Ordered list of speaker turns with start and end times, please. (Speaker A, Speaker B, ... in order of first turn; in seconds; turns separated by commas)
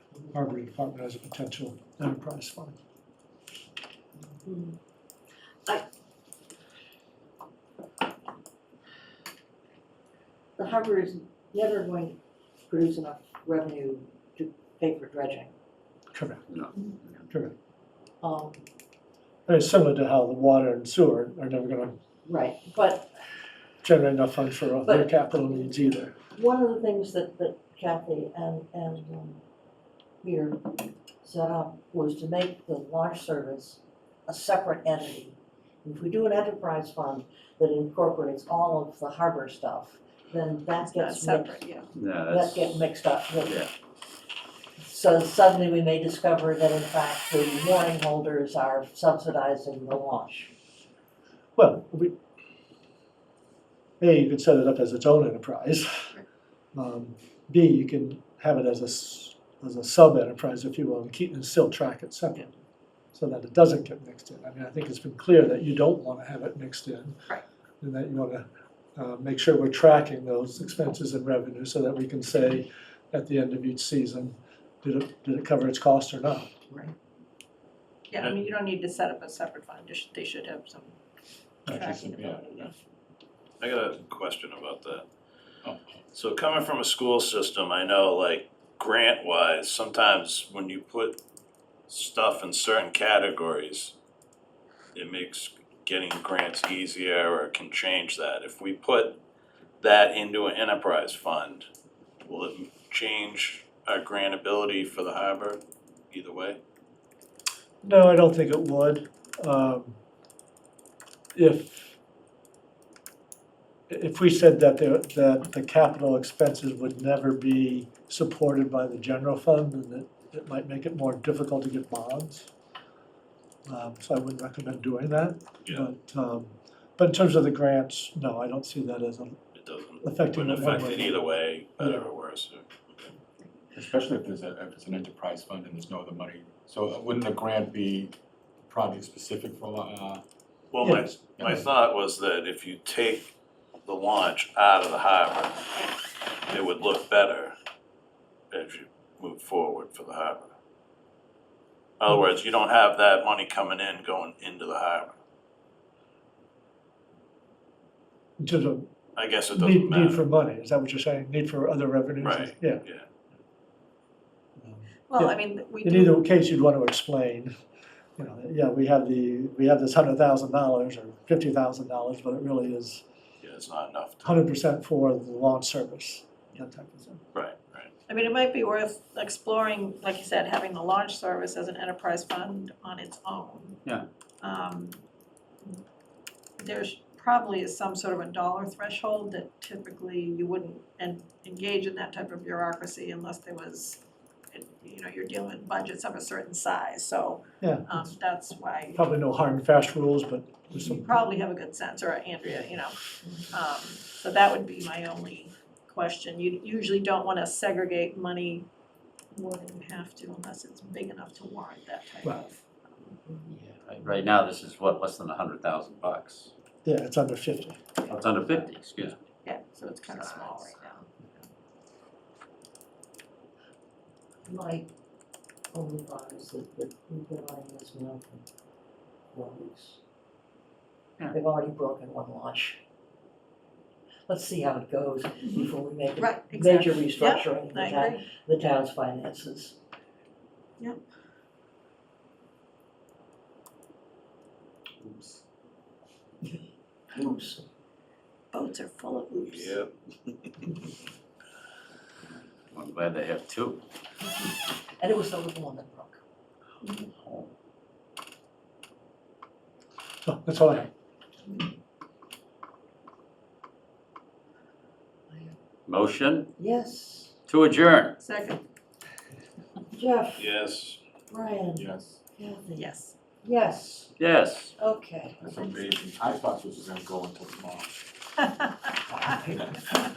Speaker A: 0.3-2.8, Speaker B: 4.4-4.8, Speaker B: 10.6-15.5, Speaker A: 16.1-16.5, Speaker B: 18.2-18.6, Speaker A: 19.5-22.0, Speaker B: 22.2-23.1, Speaker A: 23.8-26.1, Speaker B: 24.8-25.7, Speaker B: 26.3-29.4, Speaker B: 30.2-30.7, Speaker B: 31.2-41.6, Speaker C: 40.8-41.9, Speaker D: 42.0-42.8, Speaker B: 42.2-43.6, Speaker B: 44.8-50.5, Speaker A: 51.5-52.1, Speaker A: 54.0-56.1, Speaker A: 56.7-62.5, Speaker A: 63.1-67.2, Speaker A: 67.8-68.4, Speaker A: 69.0-76.5, Speaker C: 78.1-81.0, Speaker E: 81.7-82.7, Speaker C: 81.7-82.7, Speaker F: 83.6-85.0, Speaker E: 85.6-86.0, Speaker F: 86.1-91.2, Speaker F: 91.9-93.9, Speaker F: 94.9-99.2, Speaker F: 99.8-101.7, Speaker F: 102.2-106.6, Speaker A: 107.8-110.0, Speaker A: 111.3-112.0, Speaker A: 113.9-122.5, Speaker A: 123.7-129.4, Speaker F: 129.5-133.1, Speaker A: 130.0-132.0, Speaker E: 133.7-140.2, Speaker F: 140.7-143.3, Speaker F: 143.8-145.6, Speaker F: 146.5-147.5, Speaker F: 148.5-150.5, Speaker F: 152.0-155.2, Speaker A: 158.4-158.9, Speaker F: 159.2-160.2, Speaker A: 159.5-162.8, Speaker F: 162.2-163.1, Speaker A: 164.6-167.5, Speaker C: 165.1-166.2, Speaker A: 168.2-173.0, Speaker F: 173.4-174.4, Speaker A: 174.2-177.2, Speaker F: 177.3-177.9, Speaker C: 178.1-183.8, Speaker C: 184.4-185.0, Speaker C: 186.6-194.0, Speaker C: 194.5-199.1, Speaker A: 197.6-198.1, Speaker A: 198.9-201.1, Speaker C: 200.7-203.0, Speaker C: 203.5-208.7, Speaker C: 209.3-212.6, Speaker D: 213.6-216.5, Speaker A: 216.8-217.8, Speaker D: 218.1-219.2, Speaker C: 219.4-221.3, Speaker B: 224.4-224.9, Speaker B: 225.7-228.4, Speaker B: 229.3-230.0, Speaker B: 231.3-232.8, Speaker B: 234.3-239.8, Speaker C: 236.2-238.2, Speaker B: 247.1-247.7, Speaker C: 248.5-249.8, Speaker F: 249.5-249.9, Speaker D: 252.7-253.8, Speaker B: 255.0-256.2, Speaker C: 256.8-257.1, Speaker A: 260.2-260.9, Speaker D: 265.9-266.5, Speaker B: 266.6-267.4, Speaker D: 267.5-268.1, Speaker C: 268.2-268.6, Speaker B: 269.9-270.5, Speaker F: 270.4-271.0, Speaker B: 271.3-271.9, Speaker E: 271.7-272.2, Speaker B: 272.4-274.1, Speaker C: 272.7-273.1, Speaker D: 274.2-274.7, Speaker B: 274.8-275.4, Speaker E: 275.4-277.9, Speaker E: 279.4-279.9